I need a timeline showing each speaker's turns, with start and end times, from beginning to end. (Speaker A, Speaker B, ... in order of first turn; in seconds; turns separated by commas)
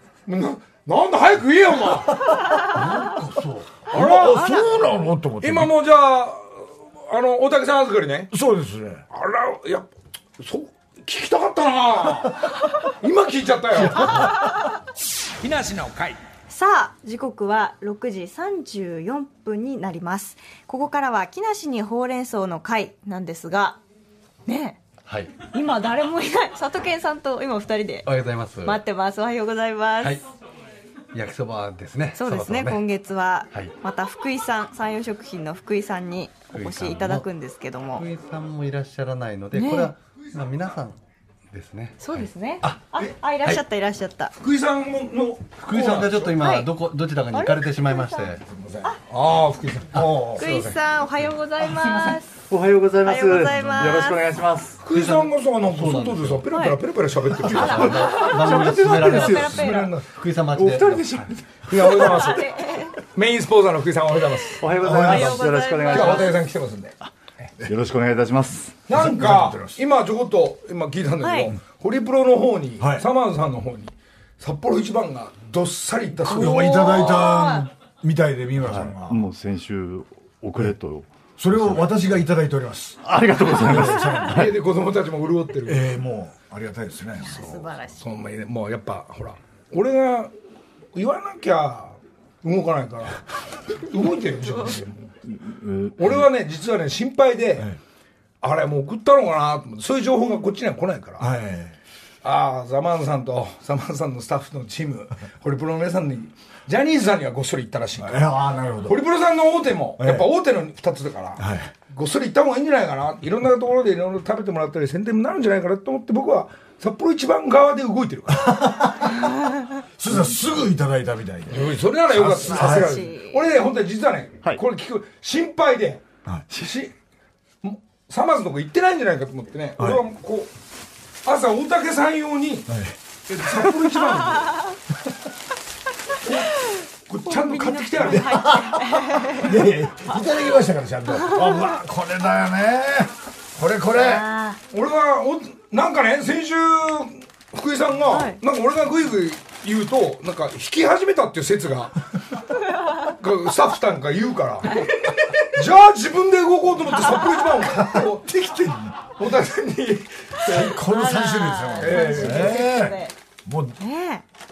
Speaker A: 0.3-2.4, Speaker B: 2.7-5.7, Speaker A: 3.9-4.6, Speaker A: 5.4-8.3, Speaker B: 8.3-9.0, Speaker A: 9.1-14.3, Speaker A: 15.4-16.2, Speaker C: 16.5-23.8, Speaker C: 24.5-24.8, Speaker D: 25.1-25.3, Speaker C: 25.5-28.1, Speaker D: 28.1-28.8, Speaker C: 28.6-30.2, Speaker D: 31.1-32.8, Speaker C: 32.1-38.1, Speaker D: 36.5-37.3, Speaker D: 37.9-41.0, Speaker C: 39.5-39.9, Speaker D: 41.5-42.8, Speaker C: 42.0-44.3, Speaker A: 44.4-46.4, Speaker D: 45.6-48.4, Speaker C: 46.4-46.7, Speaker C: 47.3-48.3, Speaker A: 48.5-50.7, Speaker B: 49.9-50.6, Speaker C: 50.4-52.3, Speaker E: 52.4-54.9, Speaker C: 53.0-54.2, Speaker A: 54.8-60.1, Speaker D: 54.9-56.5, Speaker C: 56.5-56.8, Speaker D: 57.4-61.3, Speaker C: 57.5-60.0, Speaker B: 60.5-62.0, Speaker E: 60.7-61.1, Speaker A: 61.6-67.0, Speaker C: 62.0-63.0, Speaker E: 64.6-66.4, Speaker B: 64.8-65.4, Speaker C: 64.8-66.5, Speaker E: 67.6-68.9, Speaker A: 68.9-76.9, Speaker B: 68.9-69.8, Speaker C: 71.2-71.5, Speaker B: 72.8-73.1, Speaker B: 76.2-79.2, Speaker C: 76.3-77.7, Speaker E: 78.6-81.9, Speaker B: 81.4-84.6, Speaker E: 83.0-84.5, Speaker A: 83.8-85.8, Speaker B: 85.7-87.7, Speaker C: 87.2-88.0, Speaker A: 88.0-90.3, Speaker A: 91.0-95.1, Speaker E: 95.4-95.9, Speaker A: 96.0-97.7, Speaker A: 98.4-101.3, Speaker B: 101.2-101.8, Speaker A: 102.2-108.3, Speaker B: 108.0-109.0, Speaker A: 108.8-118.7, Speaker B: 110.0-110.3, Speaker B: 111.4-111.7, Speaker B: 118.3-119.3, Speaker B: 120.0-123.0, Speaker A: 121.5-126.9, Speaker C: 122.5-123.4, Speaker A: 127.6-130.5, Speaker B: 129.8-130.1, Speaker A: 131.2-132.7, Speaker B: 132.7-133.0, Speaker A: 133.3-134.7, Speaker A: 136.2-138.5, Speaker C: 137.3-139.6, Speaker B: 138.1-144.3, Speaker C: 141.3-141.6, Speaker C: 143.9-144.6, Speaker A: 144.7-152.0, Speaker C: 148.1-148.4, Speaker A: 153.0-160.8, Speaker B: 158.0-158.9, Speaker B: 160.4-163.8, Speaker C: 160.7-163.1, Speaker A: 161.8-162.7, Speaker C: 163.8-164.2